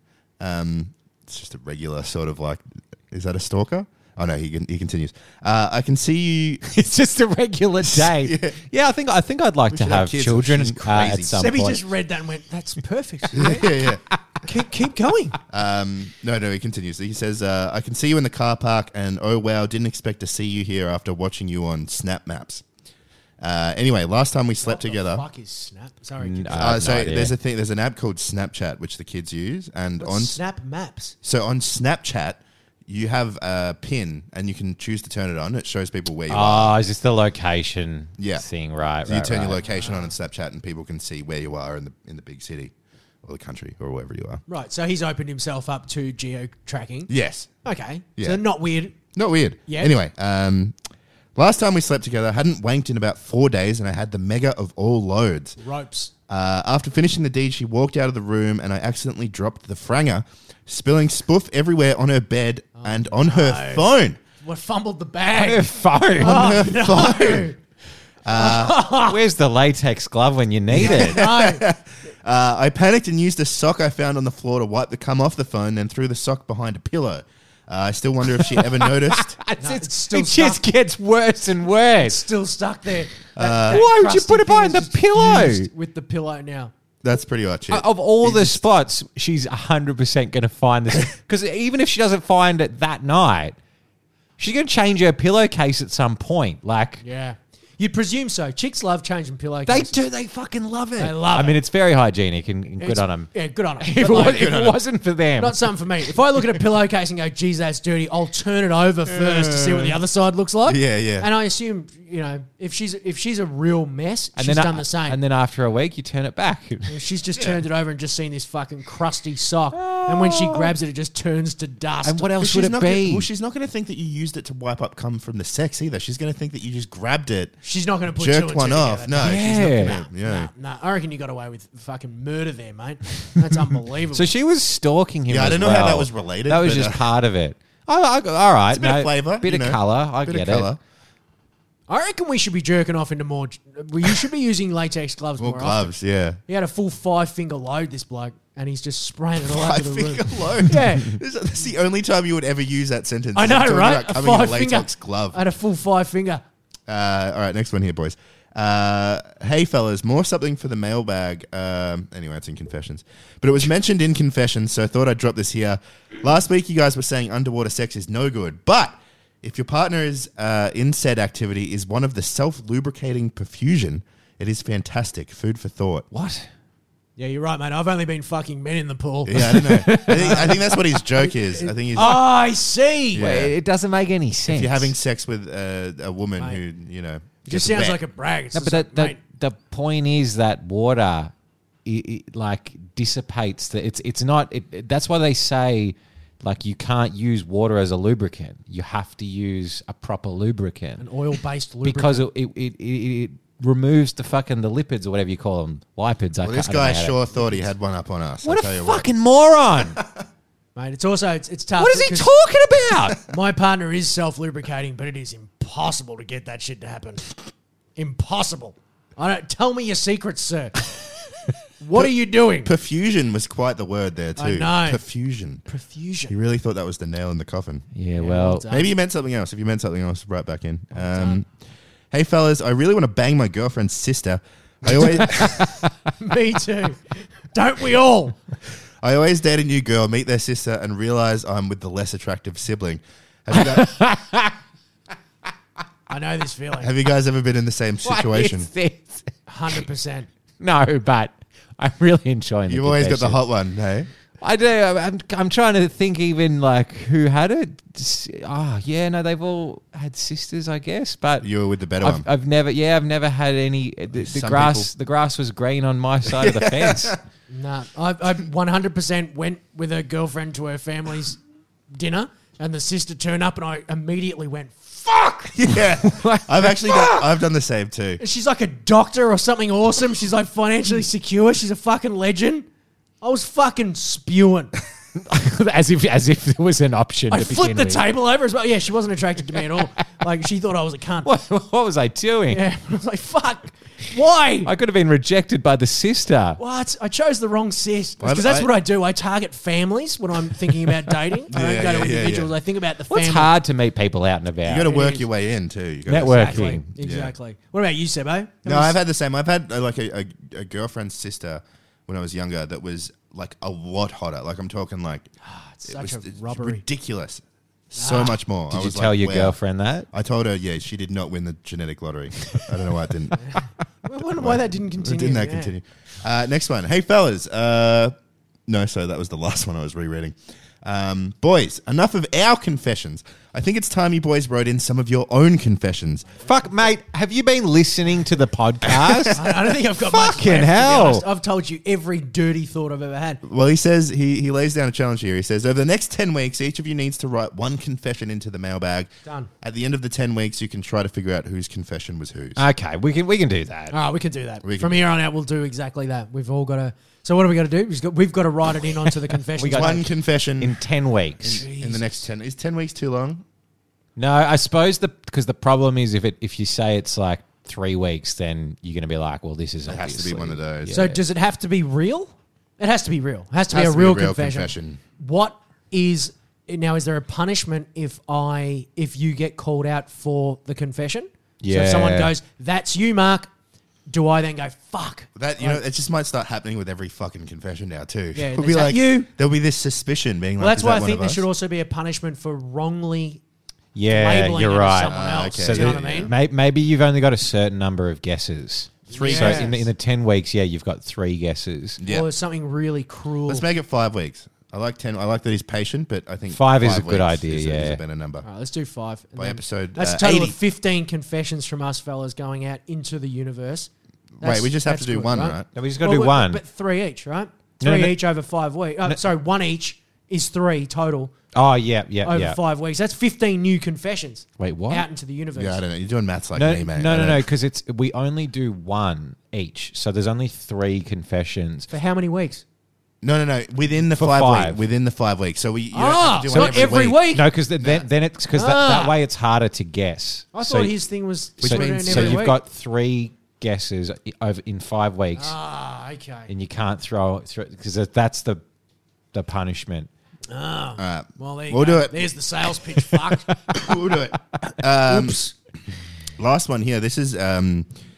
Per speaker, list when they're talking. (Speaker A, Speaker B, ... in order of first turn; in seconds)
Speaker A: 0.4-6.6, 8.0-8.6, 9.7-11.5, 13.3-14.0, 15.5-22.6, 23.4-25.2, 26.5-30.4, 31.2-36.8, 38.2-38.5, 39.1-42.7, 43.2-44.4, 47.1-47.5, 48.2-48.4, 49.1-50.8, 51.4-55.6, 56.3-64.2, 66.2-67.5, 68.2-68.8, 70.7-79.4, 83.3-83.8, 87.0-88.6, 104.0-104.8, 109.1-110.0, 110.7-111.3, 117.4-117.6, 122.4-127.6, 128.2-130.5, 135.3-137.0, 138.7-140.8, 145.4-146.4, 149.4-155.4, 156.9-176.1, 179.3-182.2, 183.1-183.6, 184.5-188.0, 206.4-209.1, 222.6-225.6, 226.3-227.9, 228.7-231.5, 232.1-235.6, 239.0-243.9, 246.8-248.7, 252.7-254.1, 261.4-262.3, 264.1-264.9, 266.2-267.2, 275.6-278.2, 298.2-298.7, 301.5-302.5, 304.6-307.3, 308.6-315.3, 315.9-319.6, 320.1-323.5, 324.4-328.1, 328.7-336.4, 338.9-339.3, 343.4-352.6, 354.6-355.0, 359.7-360.8, 361.4-363.4, 369.9-371.0, 373.7-375.0, 385.4-391.4, 395.1-396.4, 399.2-399.7, 402.0-402.3, 403.5-408.4, 409.4-410.6, 414.4-415.7, 425.6-427.4, 433.2-437.3, 437.8-438.1, 441.6-442.5, 451.0-452.3, 453.7-455.4, 456.4-457.9
Speaker B: 6.7-11.9, 26.2-27.4, 36.3-39.6, 65.3-66.7, 68.9-71.3, 78.4-82.3, 83.7-85.7, 87.7-93.6, 94.4-97.0, 99.7-105.7, 114.4-117.0, 119.7-120.7, 122.0-123.3, 129.2-130.0, 134.1-140.7, 176.1-176.5, 179.3-180.7, 182.0-182.2, 183.1-184.9, 188.5-191.3, 191.8-201.0, 201.8-207.4, 208.4-210.0, 211.8-213.2, 227.9-228.7, 235.4-235.8, 243.5-244.6, 248.1-249.8, 250.6-253.4, 254.4-261.5, 262.0-267.2, 276.0-277.2, 285.2-288.1, 291.2-292.6, 294.6-296.6, 303.1-305.0, 306.1-306.9, 318.7-320.1, 336.4-341.2, 352.6-354.0, 359.6-360.1, 360.6-362.0, 364.2-371.2, 381.6-382.3, 393.9-402.0, 406.5-408.0, 415.7-416.6, 417.8-418.2, 421.5-422.6, 424.6-425.1, 426.6-431.9, 434.1-434.8, 436.5-440.9, 441.6-445.6, 446.5-448.6, 449.3-450.1
Speaker C: 11.3-13.7, 14.4-15.4, 24.6-27.0, 30.0-31.1, 39.7-40.1, 44.5-47.1, 47.6-49.0, 49.7-50.0, 55.6-56.1, 62.8-67.6, 68.3-69.2, 70.7-71.7, 79.6-80.7, 82.0-86.7, 97.0-100.0, 101.0-101.6, 102.8-104.6, 105.4-115.2, 116.9-122.3, 127.6-134.3, 141.9-145.9, 146.5-151.2, 153.3-156.4, 177.2-183.3, 187.4-189.2, 201.0-202.3, 210.7-212.3, 213.2-217.3, 217.9-220.9, 221.8-222.7, 224.4-225.0, 225.7-226.3, 228.2-228.9, 231.0-231.4, 234.9-238.4, 246.1-246.9, 249.5-250.3, 267.5-275.7, 278.2-282.7, 283.2-284.7, 287.3-291.3, 292.5-294.7, 296.6-303.5, 304.9-305.2, 306.3-309.0, 315.4-316.8, 317.9-318.4, 323.4-325.7, 339.3-343.4, 353.9-360.1, 370.9-383.5, 384.1-385.8, 388.4-389.3, 390.6-393.4, 394.1-396.3, 399.1-399.9, 402.1-403.6, 408.4-413.9, 414.4-421.3, 422.2-425.8, 431.9-432.6, 435.9-437.4, 438.5-439.2, 440.5-442.6, 445.4-446.5, 450.5-453.6, 455.1-455.6